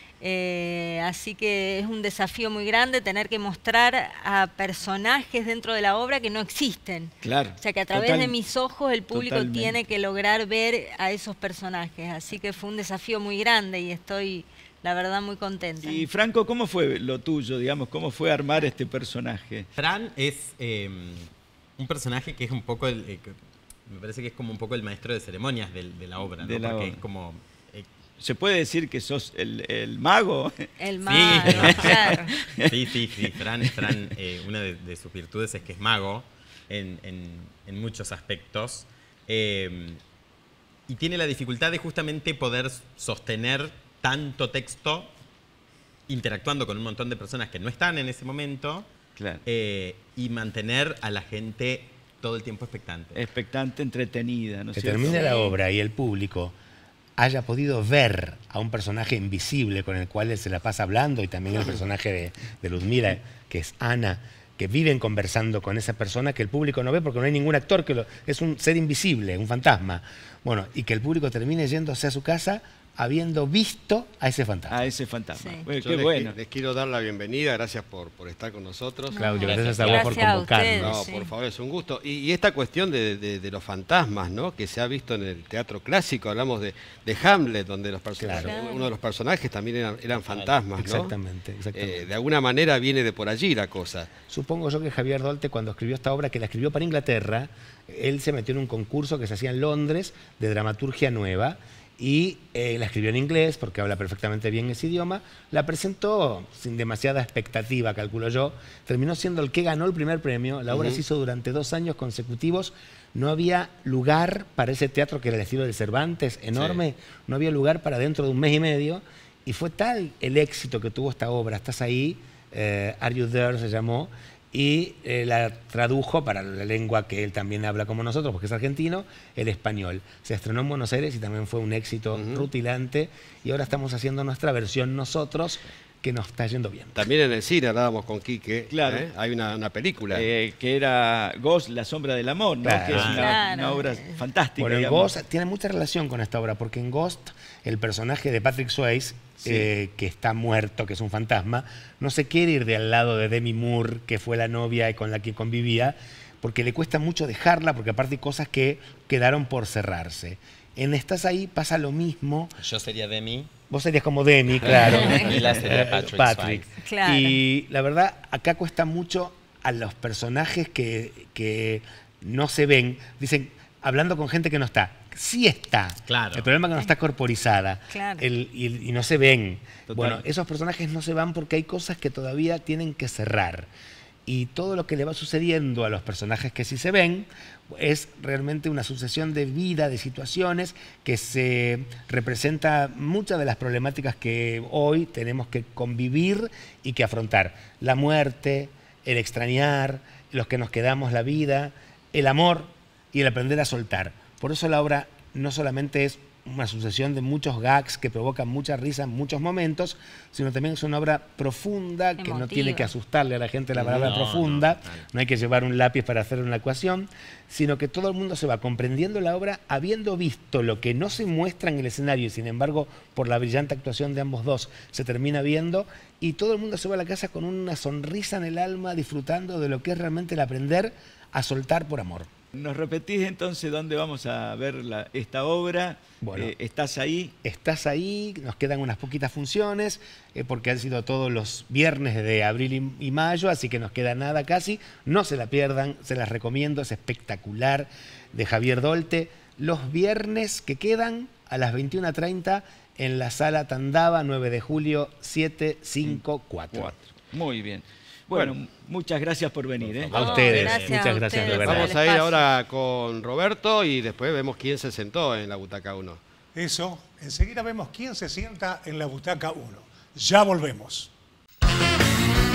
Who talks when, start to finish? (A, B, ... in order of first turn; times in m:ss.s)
0:00.2-0:16.1 A
0:07.2-0:08.4 B
0:09.1-0:09.8 B
0:15.8-0:19.7 B
0:19.8-0:27.9 C
0:26.4-0:27.0 B
0:28.2-0:30.6 B
0:30.8-0:32.3 A
0:31.0-0:32.1 C
0:31.2-0:32.8 B
0:32.7-0:40.0 C
0:33.3-0:34.0 B
0:40.9-0:45.1 C
0:46.1-0:48.9 C
0:49.2-0:49.4 B
0:49.4-0:53.2 C
0:53.1-0:55.2 B
0:54.7-0:56.5 D
0:55.0-0:55.6 A
0:57.2-1:14.9 D
1:14.7-1:16.3 B
1:15.3-1:15.7 A
1:15.8-1:19.2 E
1:19.1-1:21.3 A
1:19.1-1:21.0 D
1:19.4-1:20.2 C
1:20.7-1:31.1 E
1:28.2-1:28.5 D
1:28.3-1:28.9 A
1:30.2-1:30.5 C
1:30.8-1:32.1 D
1:31.7-1:34.1 E
1:34.3-2:17.0 D
1:50.7-1:51.0 E
1:56.5-1:56.8 C
2:12.1-2:12.5 E
2:17.0-2:20.2 E
2:18.7-2:19.1 B
2:20.1-2:25.1 B
2:22.6-2:23.2 D
2:22.8-2:23.4 C
2:23.0-2:24.2 A
2:24.6-2:42.5 D
2:42.6-2:43.5 C
2:43.7-3:03.7 D
2:44.7-2:46.7 C
2:45.0-2:45.4 A
2:46.8-2:47.4 A
2:56.0-2:56.5 C
2:57.9-2:58.3 A
2:59.9-3:00.2 B
3:04.2-3:52.3 D
3:32.2-3:32.9 A
3:33.7-3:35.1 C
3:52.5-3:57.3 B
3:56.2-3:56.5 D
3:57.4-4:17.0 D
4:16.7-4:20.1 B
4:20.0-4:21.6 C
4:20.1-4:21.9 D
4:20.1-4:22.5 A
4:21.6-4:26.2 E
4:26.5-4:31.1 F